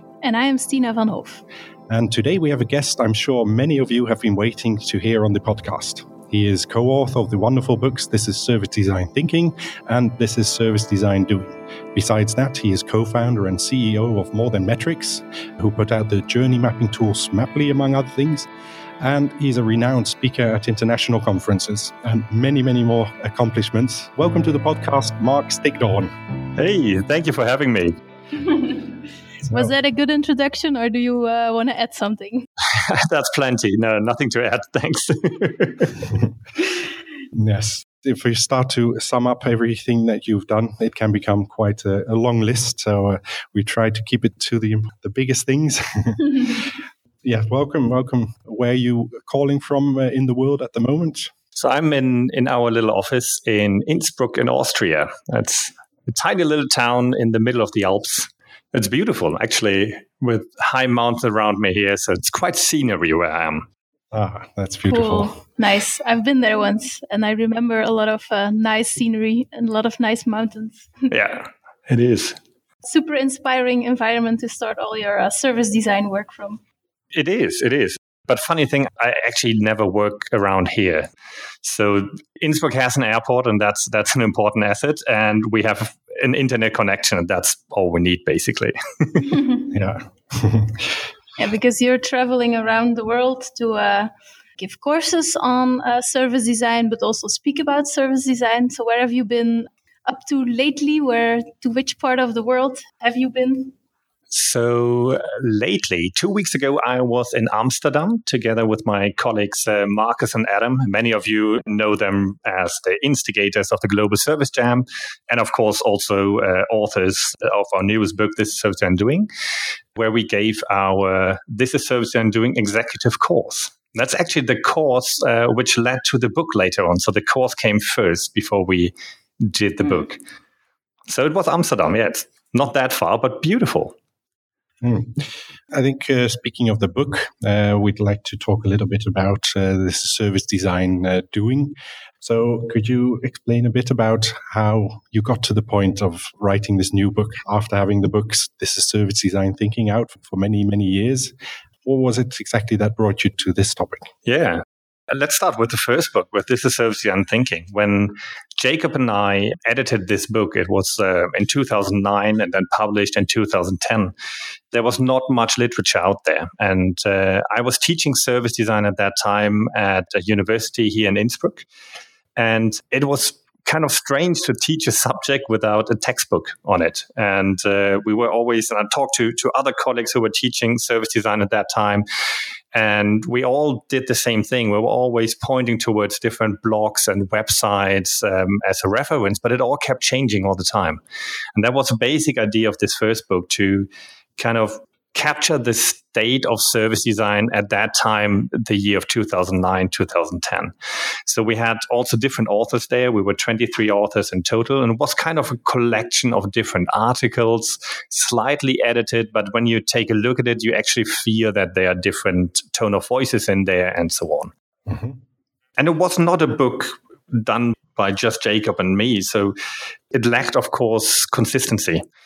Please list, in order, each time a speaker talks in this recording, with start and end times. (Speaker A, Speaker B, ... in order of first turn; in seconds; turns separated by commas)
Speaker A: 0.2-1.4, Speaker B: 1.9-18.5, Speaker B: 19.0-26.1, Speaker C: 26.6-27.9, Speaker A: 28.4-28.9, Speaker B: 29.5-29.7, Speaker A: 29.5-32.5, Speaker C: 32.7-36.0, Speaker B: 37.3-46.7, Speaker B: 47.2-51.3, Speaker C: 51.5-63.7, Speaker B: 64.1-65.3, Speaker A: 64.9-71.1, Speaker C: 71.1-72.4, Speaker A: 72.8-76.6, Speaker C: 77.1-81.1, Speaker C: 81.6-89.4, Speaker A: 89.3-89.6, Speaker B: 89.7-90.9, Speaker A: 91.4-103.7, Speaker C: 104.3-119.3, Speaker C: 119.9-130.2, Speaker C: 131.1-133.9, Speaker B: 134.8-154.1, Speaker C: 154.2-164.1, Speaker C: 164.7-171.7, Speaker C: 172.3-182.0, Speaker C: 182.7-191.0, Speaker C: 191.6-200.7, Speaker C: 201.2-214.5, Speaker B: 214.9-215.2, Speaker C: 215.8-219.5, Speaker C: 220.1-222.0